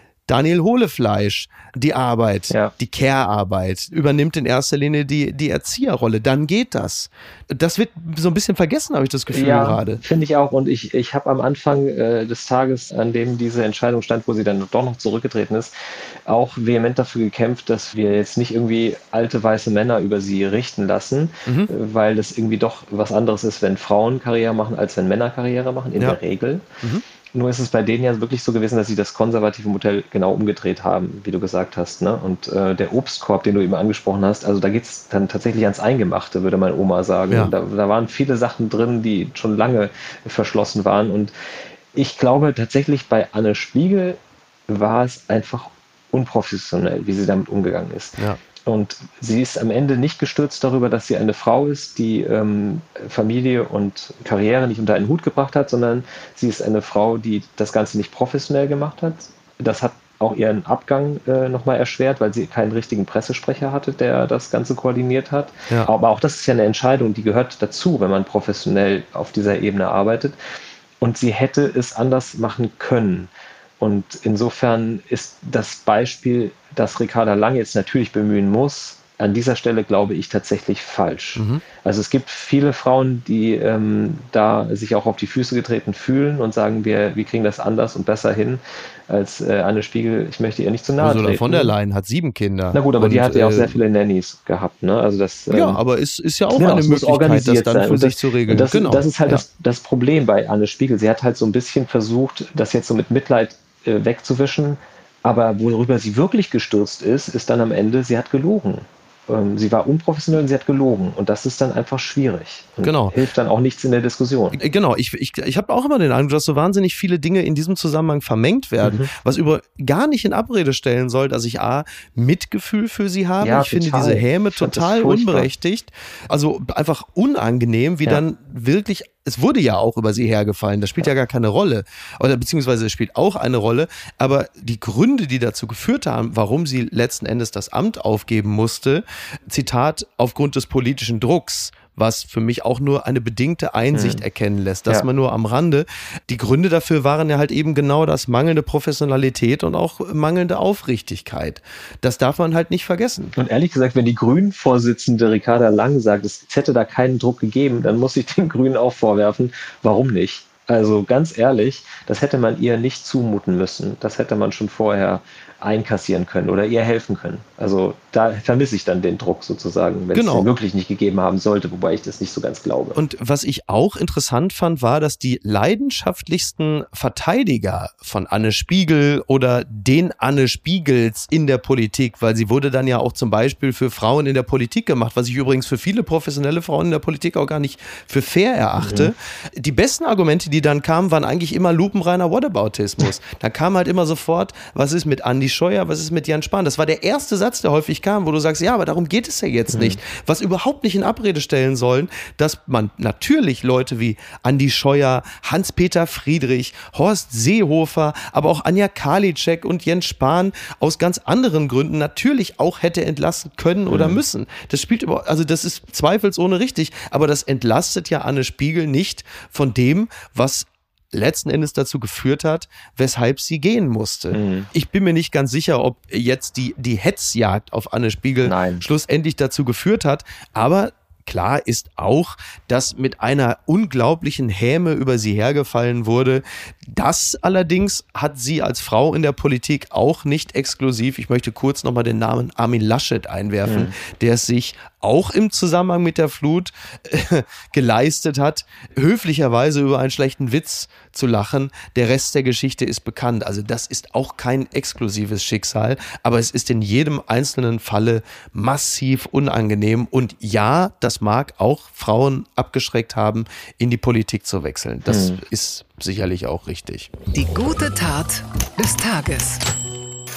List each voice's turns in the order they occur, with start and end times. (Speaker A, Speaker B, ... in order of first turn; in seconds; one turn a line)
Speaker A: 0.3-10.0
Speaker B: 9.3-15.7
Speaker B: 16.2-26.6
Speaker A: 21.4-21.7
Speaker B: 27.3-41.3
Speaker B: 41.9-70.3
Speaker B: 71.0-91.7
Speaker A: 81.3-81.6
Speaker A: 91.0-93.8
Speaker B: 92.7-95.8
Speaker A: 95.5-99.4
Speaker B: 96.5-114.6
Speaker A: 112.8-113.2
Speaker A: 114.5-153.3
Speaker B: 118.8-119.1
Speaker B: 123.4-125.5
Speaker B: 143.9-144.2
Speaker B: 153.3-173.0
Speaker A: 170.1-170.5
Speaker A: 172.9-267.1
Speaker B: 188.8-189.1
Speaker B: 199.7-200.0
Speaker B: 213.9-214.2
Speaker B: 224.3-224.7
Speaker B: 228.4-228.8
Speaker B: 243.7-243.9
Speaker B: 265.1-265.4
Speaker C: 267.3-269.6